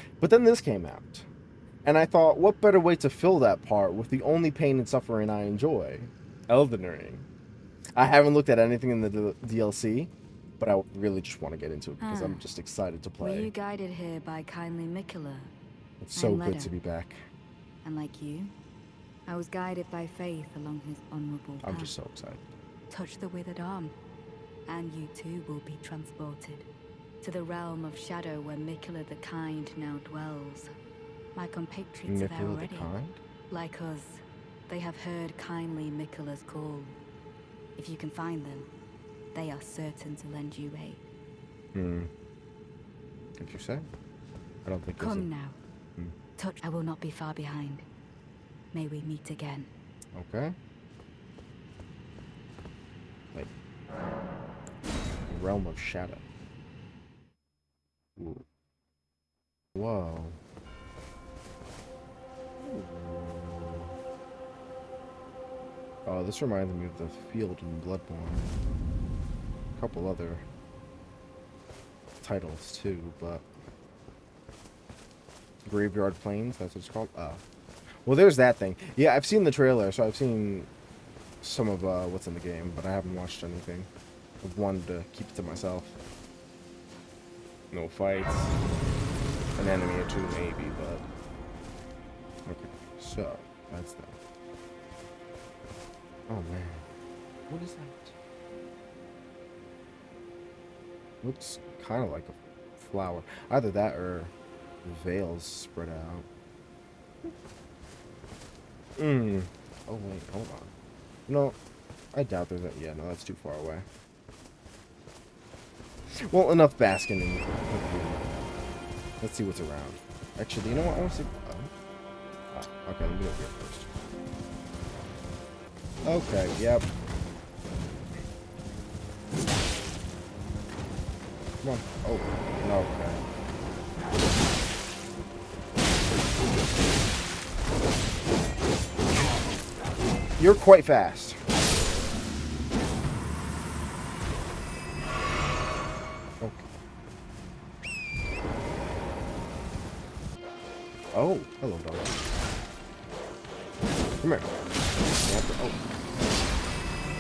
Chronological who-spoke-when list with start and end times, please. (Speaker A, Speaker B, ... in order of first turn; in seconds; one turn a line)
Speaker A: 0.2-1.3
Speaker A: 1.9-7.3
Speaker A: 8.0-13.5
Speaker B: 12.0-12.5
Speaker B: 13.2-15.5
Speaker A: 16.0-17.2
Speaker B: 16.2-16.7
Speaker B: 17.8-18.5
Speaker B: 19.3-21.9
Speaker A: 21.6-22.5
Speaker B: 22.9-23.9
Speaker B: 24.7-26.7
Speaker B: 27.2-30.7
Speaker B: 31.4-32.9
Speaker A: 32.1-33.2
Speaker B: 33.5-37.0
Speaker B: 37.8-38.7
Speaker B: 39.3-41.0
Speaker A: 41.7-42.1
Speaker A: 43.4-43.9
Speaker A: 44.6-45.3
Speaker B: 45.0-45.6
Speaker B: 46.4-47.9
Speaker B: 48.7-49.7
Speaker A: 50.1-50.6
Speaker A: 55.3-56.2
Speaker A: 58.2-58.5
Speaker A: 59.7-60.4
Speaker A: 62.6-64.0
Speaker A: 66.0-68.5
Speaker A: 69.8-70.4
Speaker A: 72.2-73.4
Speaker A: 75.7-77.4
Speaker A: 78.0-80.7
Speaker A: 81.4-83.9
Speaker A: 84.4-86.0
Speaker A: 87.7-88.5
Speaker A: 89.6-91.0
Speaker A: 92.5-94.2
Speaker A: 96.3-96.8
Speaker A: 97.5-98.1
Speaker A: 101.2-104.3
Speaker A: 104.8-106.3
Speaker A: 109.0-110.7
Speaker A: 111.3-111.6
Speaker A: 112.1-113.9
Speaker A: 116.1-118.2
Speaker A: 119.2-121.7
Speaker A: 122.5-123.9
Speaker A: 126.0-126.9
Speaker A: 131.6-133.2
Speaker A: 140.4-141.4
Speaker A: 146.4-146.7
Speaker A: 151.1-152.2
Speaker A: 154.2-154.5
Speaker A: 155.2-155.8